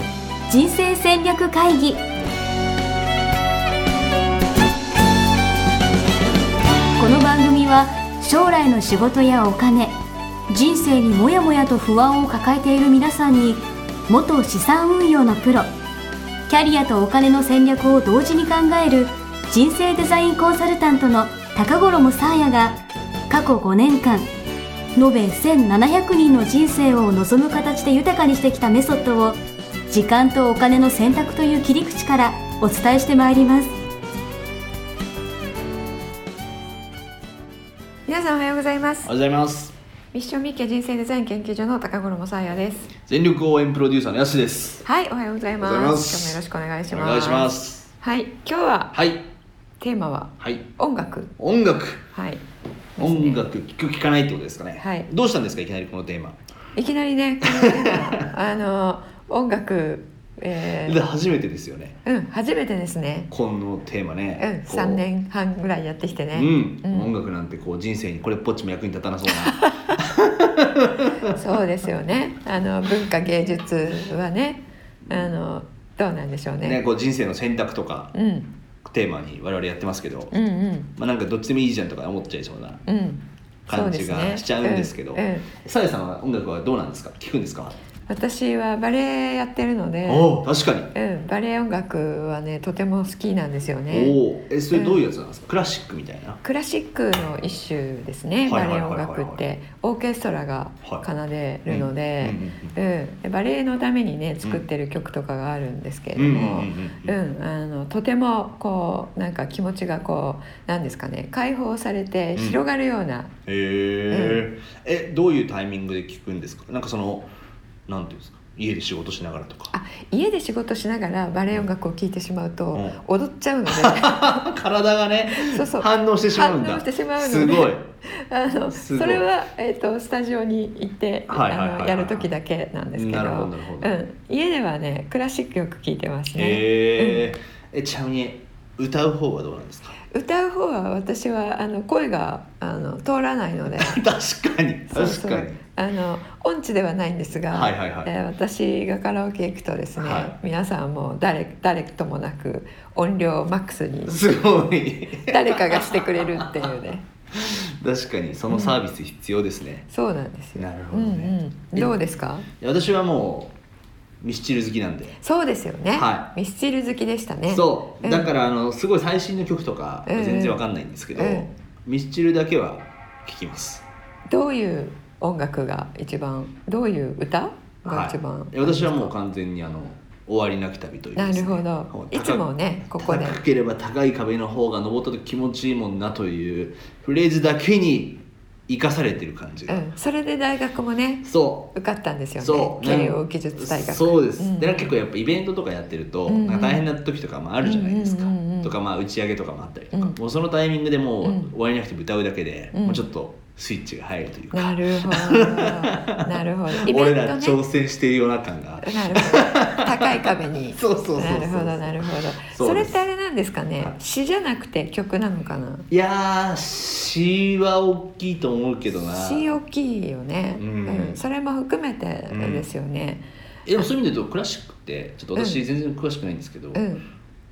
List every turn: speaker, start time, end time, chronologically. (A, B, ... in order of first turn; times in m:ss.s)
0:00.5-0:02.0 A
0:07.0-0:10.0 A
0:10.5-0:15.7 A
0:16.5-0:24.3 A
0:25.0-0:29.4 A
0:29.9-0:33.8 A
0:38.1-0:39.1 B
0:39.0-0:39.8 C
0:40.1-0:42.9 B
0:43.0-0:44.8 C
0:44.8-0:48.9 B
0:45.6-0:47.9 C
0:48.9-0:49.2 C
0:49.8-0:51.3 B
0:50.4-0:50.6 C
0:51.4-0:52.1 C
0:52.1-0:52.4 B
0:53.0-0:53.4 B
0:53.0-0:56.4 C
0:54.8-0:55.1 B
0:56.8-1:01.0 B
0:57.4-0:58.2 C
1:00.8-1:02.0 C
1:02.0-1:03.3 B
1:03.3-1:05.0 C
1:04.4-1:07.1 B
1:06.3-1:11.3 C
1:09.6-1:10.0 B
1:11.3-1:16.8 B
1:16.6-1:18.1 C
1:18.1-1:18.5 B
1:18.8-1:20.3 C
1:20.3-1:20.9 B
1:21.0-1:22.8 C
1:22.9-1:25.5 B
1:23.7-1:27.8 C
1:28.1-1:30.4 B
1:30.0-1:30.9 C
1:30.9-1:34.2 B
1:33.9-1:36.4 C
1:34.7-1:35.0 B
1:36.4-1:53.3 B
1:38.4-1:39.4 C
1:41.7-1:42.7 C
1:46.2-1:47.2 C
1:53.4-1:57.3 C
1:54.1-1:54.4 B
1:57.9-1:59.7 C
1:59.7-2:04.5 B
2:02.7-2:03.0 C
2:03.7-2:07.9 C
2:05.3-2:17.3 B
2:08.6-2:09.2 C
2:11.3-2:12.3 C
2:12.9-2:13.9 C
2:16.3-2:19.9 C
2:20.1-2:24.0 B
2:23.8-2:25.6 C
2:24.9-2:34.4 B
2:27.5-2:28.1 C
2:30.0-2:30.3 C
2:34.0-2:36.7 C
2:35.3-2:37.0 B
2:37.3-2:39.9 C
2:38.5-2:38.8 B
2:39.9-2:42.5 B
2:40.6-2:42.0 C
2:42.6-2:43.5 C
2:44.2-2:45.2 C
2:45.2-2:48.3 B
2:45.9-2:46.3 C
2:47.5-2:53.8 C
2:50.1-2:50.6 B
2:51.1-2:51.5 B
2:54.3-2:59.1 B
2:57.8-3:02.5 C
3:01.1-3:03.4 B
3:03.0-3:09.8 C
3:09.7-3:14.9 B
3:11.2-3:11.7 C
3:12.4-3:33.0 C
3:16.3-3:16.8 B
3:17.6-3:18.7 B
3:19.9-3:20.2 B
3:21.2-3:21.5 B
3:22.7-3:23.0 B
3:24.5-3:27.6 B
3:28.8-3:35.9 B
3:35.9-3:39.6 C
3:39.0-3:43.2 B
3:40.6-3:41.2 C
3:42.3-3:42.7 C
3:43.6-3:46.8 C
3:45.3-3:45.6 B
3:46.7-3:47.0 B